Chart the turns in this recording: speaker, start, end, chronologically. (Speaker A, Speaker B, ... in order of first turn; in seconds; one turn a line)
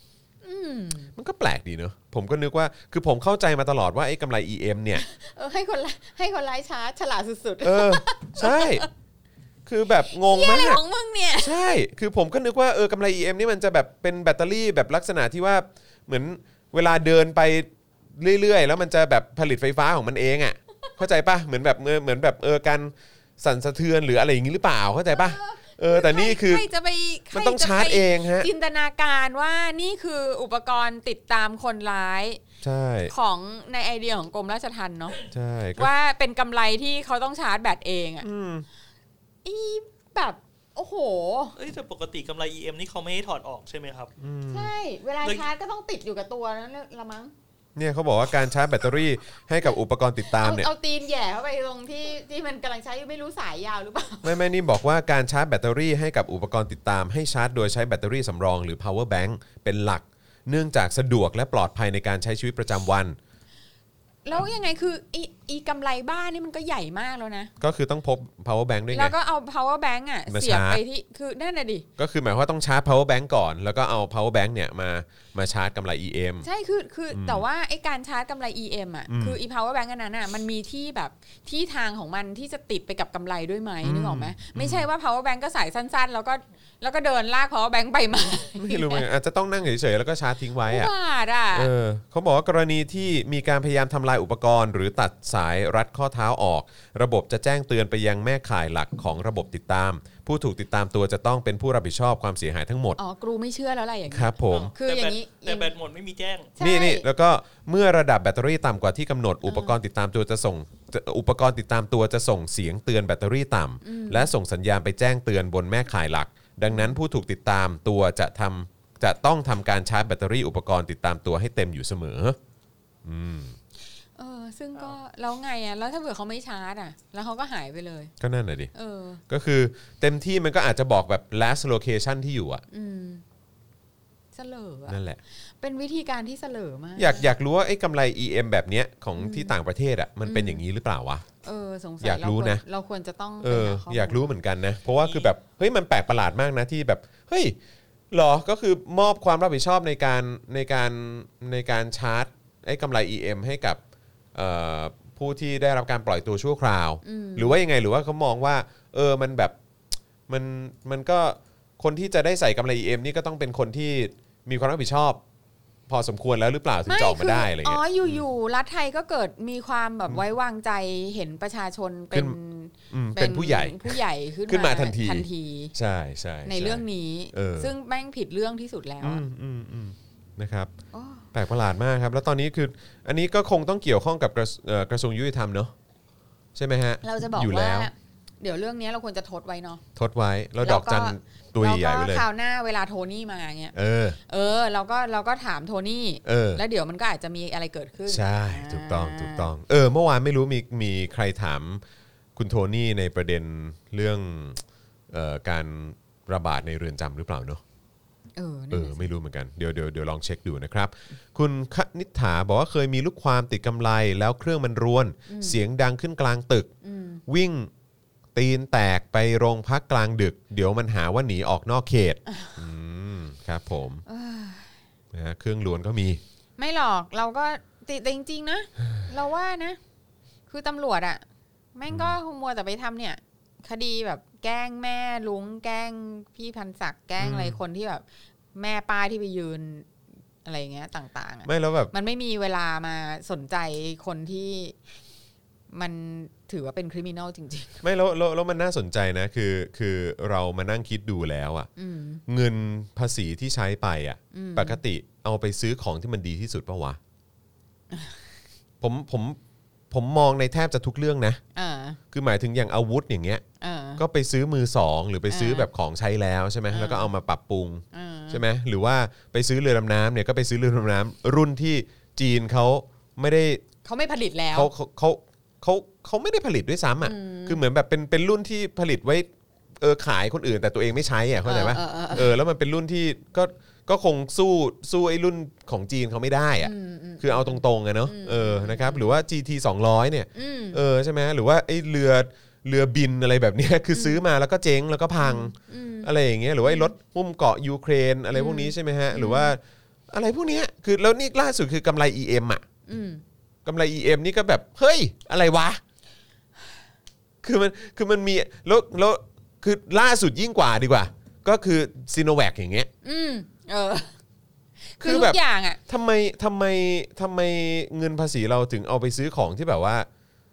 Speaker A: 0.4-1.1
Speaker B: 1.1-5.0
Speaker A: 5.0-8.9
Speaker B: 7.6-8.8
Speaker B: 9.7-10.8
Speaker A: 10.1-11.6
Speaker B: 11.4-26.6
Speaker A: 25.1-32.4
Speaker B: 27.3-28.5
Speaker B: 32.6-33.1
Speaker A: 33.1-35.2
Speaker B: 35.3-35.9
Speaker A: 35.8-38.3
Speaker B: 38.2-38.6
Speaker A: 39.4-41.5
Speaker C: 41.6-44.1
Speaker B: 44.2-44.7
Speaker A: 44.5-47.3
Speaker B: 47.8-50.7
Speaker A: 50.2-54.4
Speaker B: 54.2-63.1
Speaker A: 64.2-67.5
Speaker B: 67.6-69.1
Speaker A: 68.9-71.8
Speaker B: 70.3-70.8
Speaker B: 72.0-76.5
Speaker A: 76.4-89.0
Speaker B: 77.1-77.4
Speaker B: 79.1-79.4
Speaker B: 83.8-84.9
Speaker B: 88.6-90.9
Speaker A: 90.6-91.7
Speaker B: 91.5-103.0
Speaker A: 103.0-105.7
Speaker B: 104.1-104.7
Speaker C: 104.5-106.5
Speaker A: 106.6-107.1
Speaker B: 106.6-122.4
Speaker A: 109.4-109.8
Speaker A: 113.8-114.3
Speaker A: 116.7-117.0
Speaker B: 123.0-123.6
Speaker A: 124.2-128.1
Speaker B: 128.2-128.7
Speaker A: 128.7-129.2
Speaker B: 129.3-132.6
Speaker A: 132.7-133.2
Speaker A: 134.3-135.0
Speaker B: 134.9-135.2
Speaker A: 135.6-137.3
Speaker B: 137.0-141.2
Speaker A: 139.2-139.6
Speaker A: 140.2-140.6
Speaker A: 141.4-144.3
Speaker B: 142.0-142.6
Speaker B: 143.4-147.5
Speaker B: 148.1-153.8
Speaker B: 154.3-159.6
Speaker A: 157.0-157.6
Speaker B: 160.3-165.2
Speaker B: 165.9-168.2
Speaker A: 166.9-175.7
Speaker B: 172.9-177.7
Speaker A: 176.4-179.2
Speaker B: 179.0-180.7
Speaker A: 180.9-181.3
Speaker B: 181.3-185.7
Speaker B: 186.5-187.9
Speaker A: 187.0-189.8
Speaker B: 189.9-192.2
Speaker A: 190.6-199.5
Speaker B: 193.7-194.2
Speaker B: 196.2-196.6
Speaker B: 198.1-201.8
Speaker B: 202.3-207.6
Speaker A: 208.4-209.1
Speaker B: 208.7-216.7
Speaker A: 215.3-215.6
Speaker A: 216.8-217.2
Speaker B: 217.3-217.7
Speaker B: 218.3-224.0
Speaker A: 222.3-222.6
Speaker A: 224.1-224.8
Speaker B: 225.1-226.2
Speaker A: 226.6-229.8
Speaker A: 230.5-231.2
Speaker A: 231.8-239.9
Speaker B: 231.9-232.2
Speaker B: 237.2-237.6
Speaker A: 240.4-244.8
Speaker B: 241.4-241.9
Speaker A: 245.7-247.8
Speaker B: 247.8-251.7
Speaker A: 251.8-252.2
Speaker B: 252.3-257.0
Speaker A: 254.3-254.8
Speaker A: 257.9-258.2
Speaker B: 258.8-259.4
Speaker B: 259.9-261.4
Speaker A: 261.5-262.0
Speaker B: 262.1-263.4
Speaker A: 263.6-264.0
Speaker B: 264.0-273.6
Speaker A: 265.3-265.7
Speaker A: 266.7-267.1
Speaker A: 267.9-268.4
Speaker A: 273.8-274.7
Speaker B: 274.5-302.6
Speaker A: 277.0-277.6
Speaker A: 281.4-282.4
Speaker A: 286.6-289.1
Speaker A: 290.3-290.8
Speaker A: 293.9-294.2
Speaker A: 295.2-296.1
Speaker A: 296.6-296.9
Speaker A: 298.3-299.6
Speaker A: 302.9-303.2
Speaker B: 303.6-305.8
Speaker B: 307.4-312.9
Speaker A: 313.0-314.1
Speaker A: 314.8-315.8
Speaker B: 315.0-320.1